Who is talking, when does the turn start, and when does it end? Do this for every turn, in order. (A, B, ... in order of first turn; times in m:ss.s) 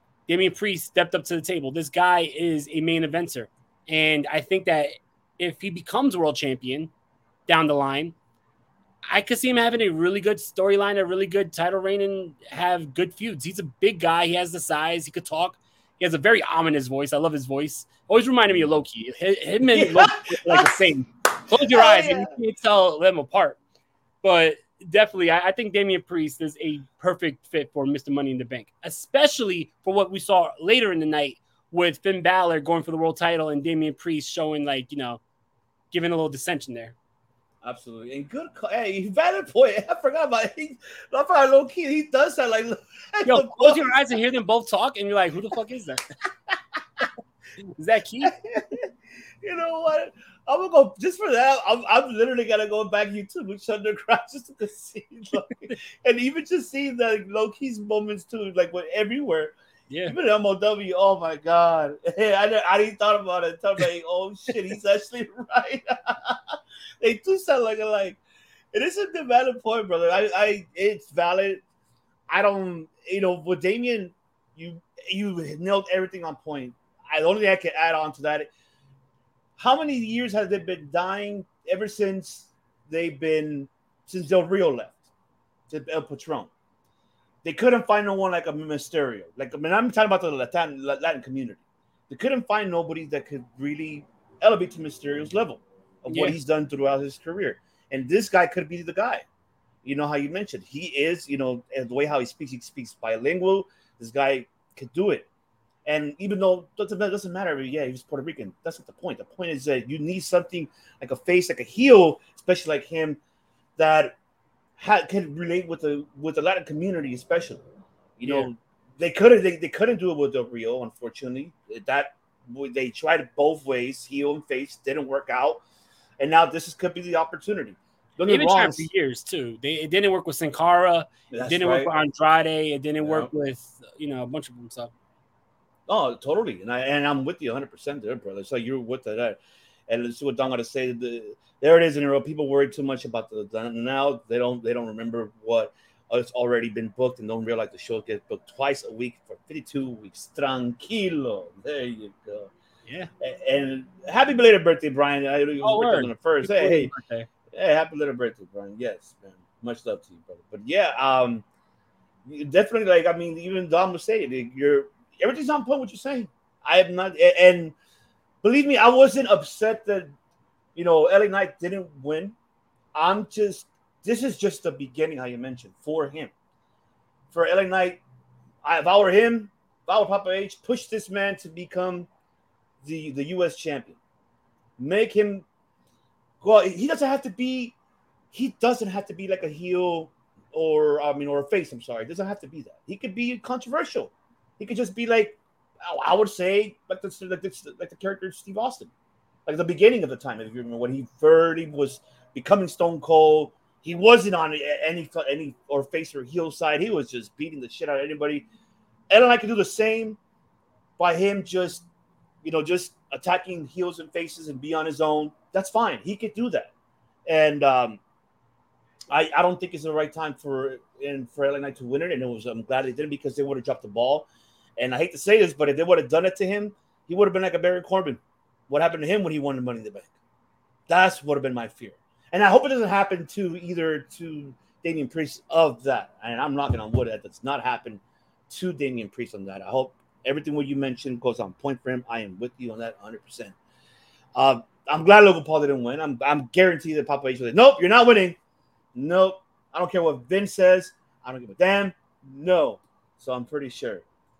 0:00.3-0:06.9 A
0:07.5-0:08.1 A
0:09.1-0:23.6 A
0:19.7-0:20.7 B
0:21.5-0:22.3 B
0:24.2-0:35.2 A
0:35.9-0:36.9 A
0:37.6-0:43.9 B
0:43.2-0:46.0 A
0:47.8-0:48.4 A
0:48.2-0:48.9 B
0:49.4-0:59.5 B
0:59.9-1:00.1 A
1:00.0-1:08.2 B
1:08.7-1:11.6 B
1:12.3-1:18.5 B
1:19.6-1:25.0 B
1:25.7-1:26.5 B
1:27.4-1:39.2 B
1:36.1-1:36.4 A
1:39.8-1:45.3 B
1:45.9-1:53.2 B
1:53.8-1:54.2 B
1:54.8-1:57.6 B
1:58.2-2:05.6 B
1:58.2-1:58.5 A
2:06.2-2:08.9 B
2:08.2-2:14.9 A
2:11.3-2:11.9 B
2:13.0-2:13.3 B
2:15.9-2:32.5 B
2:33.2-2:36.9 B
2:35.6-2:37.3 A
2:37.5-2:41.4 B
2:42.3-2:47.7 B
2:48.4-2:50.1 B
2:50.8-2:52.4 B
2:52.9-2:56.3 B
2:57.3-2:58.0 B
2:58.6-3:02.1 B
3:02.8-3:04.0 B
3:04.8-3:05.4 B
3:06.4-3:07.7 B
3:08.3-3:18.9 B
3:19.4-3:28.5 B
3:29.1-3:30.2 B
3:31.0-3:31.9 B
3:32.4-3:36.7 B
3:37.3-3:38.0 B
3:39.1-3:50.1 B
3:50.9-4:03.6 B
4:04.4-4:08.4 B
4:08.9-4:14.0 B